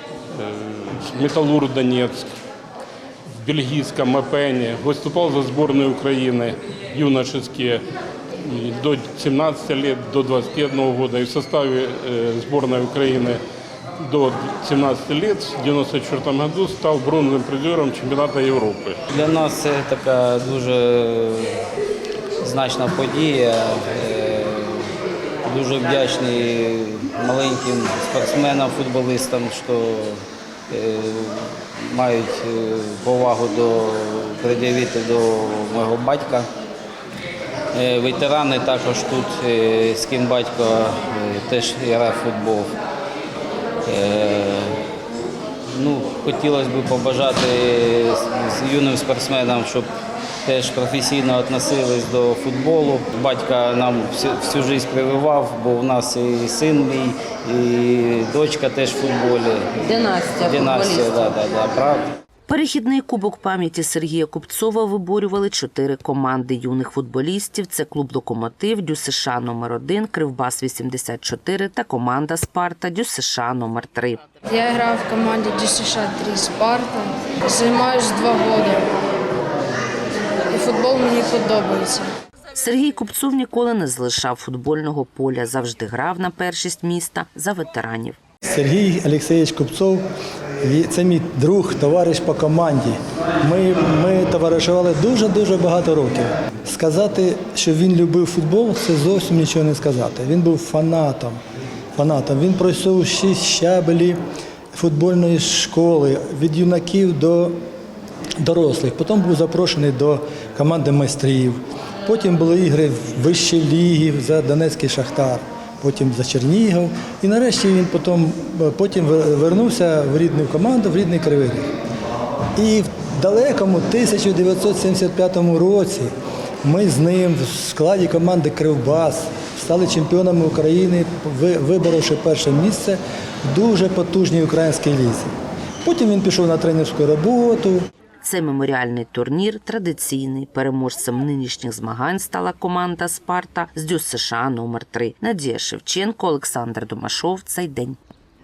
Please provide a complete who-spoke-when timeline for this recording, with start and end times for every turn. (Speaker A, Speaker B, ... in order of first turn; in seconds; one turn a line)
Speaker A: 0.3-2.4
Speaker A: 3.3-7.8
Speaker A: 8.4-13.4
Speaker A: 14.0-19.0
Speaker B: 19.1-21.6
Speaker B: 22.4-24.9
Speaker B: 25.4-36.5
Speaker B: 37.7-42.7
Speaker B: 43.9-44.7
Speaker B: 45.7-49.9
Speaker B: 50.5-62.1
Speaker C: 62.5-74.2
Speaker D: 74.5-78.8
Speaker D: 80.5-82.1
Speaker C: 82.5-88.2
Speaker E: 88.4-90.0
Speaker E: 90.6-101.4
Speaker E: 102.0-104.2
Speaker E: 104.7-107.6
Speaker E: 108.4-121.7
Speaker E: 122.5-135.3
Speaker E: 135.8-137.9
Speaker C: 138.2-148.0